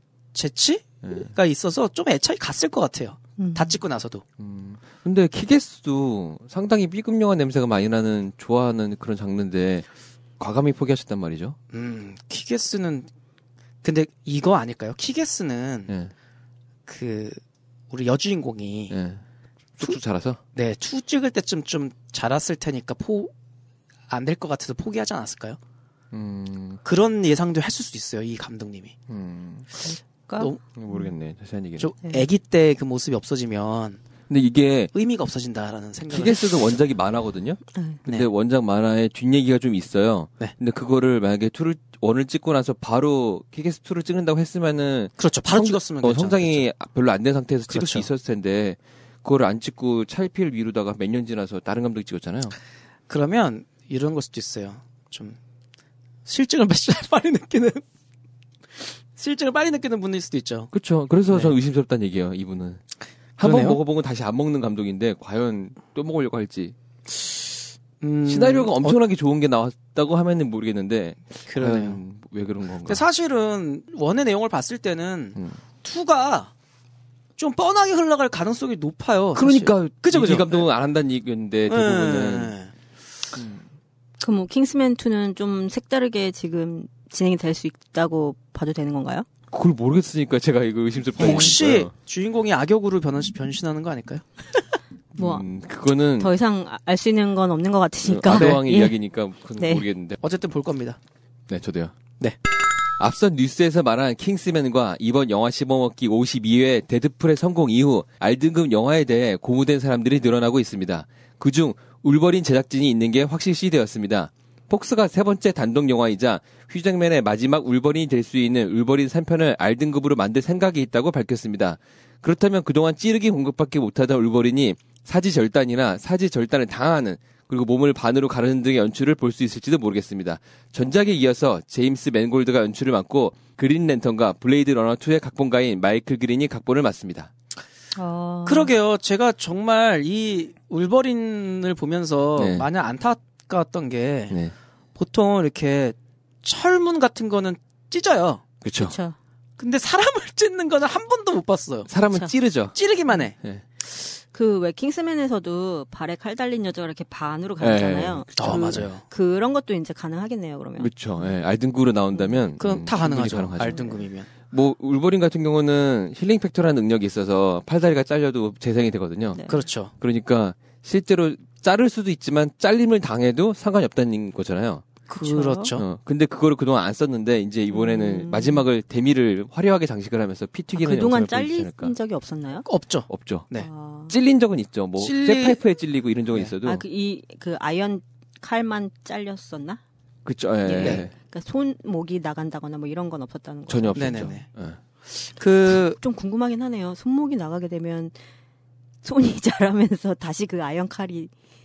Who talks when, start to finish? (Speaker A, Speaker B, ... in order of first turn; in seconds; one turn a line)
Speaker A: 0.3-4.2
Speaker B: 1.0-1.3
Speaker C: 3.4-3.8
Speaker B: 4.4-9.9
Speaker B: 10.4-11.6
Speaker A: 11.7-13.1
Speaker A: 13.8-15.9
Speaker A: 16.9-19.0
Speaker B: 18.9-19.2
Speaker B: 19.8-20.4
Speaker A: 20.6-23.3
Speaker A: 24.1-25.6
Speaker B: 26.1-26.8
Speaker A: 26.8-28.9
Speaker B: 29.1-29.9
Speaker C: 30.3-31.1
Speaker B: 30.7-31.9
Speaker A: 31.8-34.0
Speaker B: 34.3-34.9
Speaker A: 34.9-36.4
Speaker B: 36.1-52.6
Speaker C: 37.8-38.0
Speaker A: 45.2-46.7
Speaker A: 47.7-48.1
Speaker A: 53.1-55.4
Speaker A: 56.3-57.8
Speaker A: 59.2-60.7
Speaker B: 60.7-62.8
Speaker A: 61.3-61.6
Speaker B: 63.4-67.3
Speaker A: 63.4-63.8
Speaker A: 68.0-69.0
Speaker B: 68.3-73.1
Speaker A: 71.5-72.0
Speaker A: 72.9-76.5
Speaker A: 77.4-80.7
Speaker B: 79.3-82.5
Speaker A: 81.7-82.7
Speaker B: 83.3-83.6
Speaker C: 84.2-89.3
Speaker B: 89.5-91.9
Speaker A: 91.2-94.3
Speaker C: 95.2-95.5
Speaker B: 95.2-96.3
Speaker C: 96.1-99.0
Speaker B: 98.0-100.2
Speaker A: 98.3-98.6
Speaker C: 99.6-99.9
Speaker A: 100.2-101.0
Speaker B: 101.5-101.9
Speaker B: 103.0-137.3
Speaker C: 137.9-138.7
Speaker A: 138.5-144.4
Speaker B: 142.4-142.7
Speaker A: 145.0-148.5
Speaker B: 148.6-148.9
Speaker C: 148.8-149.2
Speaker A: 149.6-151.9
Speaker B: 151.9-153.6
Speaker A: 152.7-153.4
Speaker C: 154.0-161.3
Speaker B: 157.6-158.9
Speaker A: 158.4-159.0
Speaker B: 160.8-174.9
Speaker A: 162.6-164.3
Speaker C: 169.3-169.6
Speaker A: 169.5-169.9
Speaker A: 175.1-175.9
Speaker C: 175.2-175.8
Speaker B: 175.7-181.9
Speaker C: 177.7-178.7
Speaker C: 180.7-182.7
Speaker A: 182.7-183.7
Speaker B: 183.1-183.5
Speaker C: 183.6-184.2
Speaker B: 184.1-186.8
Speaker A: 185.0-185.6
Speaker C: 186.6-189.8
Speaker B: 190.2-191.1
Speaker C: 190.7-194.3
Speaker B: 193.7-194.8
Speaker A: 193.9-194.5
Speaker A: 195.1-196.0
Speaker C: 195.7-198.2
Speaker C: 199.0-201.3